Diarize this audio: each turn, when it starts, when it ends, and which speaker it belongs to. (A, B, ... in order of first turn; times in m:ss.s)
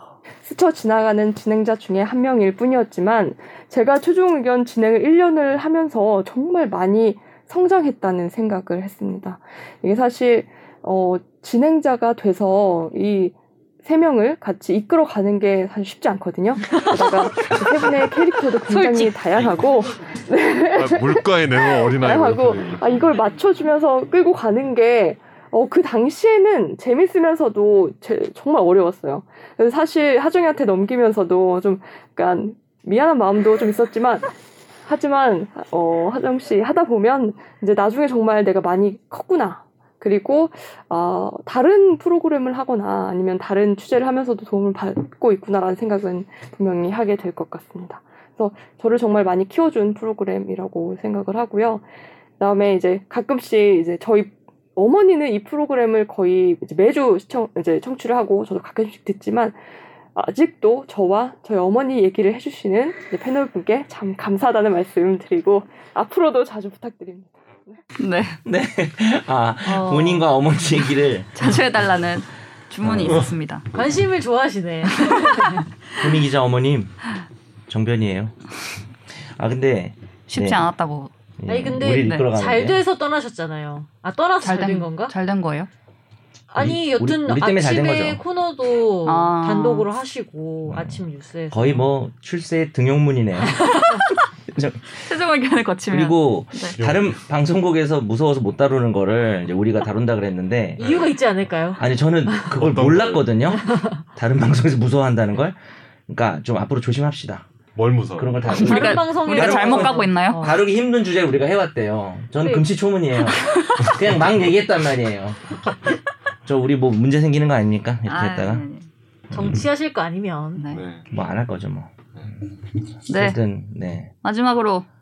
0:00.4-0:34.3 A
0:18.7-0:19.0 B
0:20.8-0:23.1 C
0:34.8-0:51.8 A
0:52.4-0:59.6 A
1:00.1-1:07.8 A
1:08.0-1:08.4 B
1:08.4-1:11.6 D
1:09.7-1:10.3 B
1:11.4-1:13.7 B
1:12.8-1:13.2 D
1:13.7-1:15.6 E
1:15.1-1:15.6 B
1:16.0-1:16.9 D
1:17.7-1:18.4 D
1:19.2-1:20.7 D
1:20.3-1:21.1 B
1:21.4-1:22.8 D
1:21.5-1:25.1 E
1:21.9-1:22.3 B
1:24.4-1:25.7 B
1:26.5-1:31.8 E
1:26.6-1:28.2 D
1:29.0-1:29.9 B
1:30.7-1:33.8 D
1:34.5-1:35.1 D
1:35.0-1:36.8 B
1:35.9-1:40.9 D
1:36.8-1:37.2 C
1:40.8-1:41.1 C
1:40.8-1:42.5 E
1:41.8-1:45.6 D
1:42.5-1:43.4 C
1:43.7-1:43.9 E
1:46.1-1:47.5 D
1:47.8-1:48.7 C
1:48.2-1:55.4 D
1:48.5-1:50.4 B
1:48.5-1:50.6 E
1:52.4-1:52.7 E
1:56.4-1:58.7 D
1:58.1-1:58.9 B
1:59.3-2:00.6 E
2:00.6-2:00.8 B
2:00.7-2:01.1 C
2:01.1-2:02.3 D
2:03.1-2:03.4 B
2:03.1-2:04.1 D
2:04.2-2:04.9 B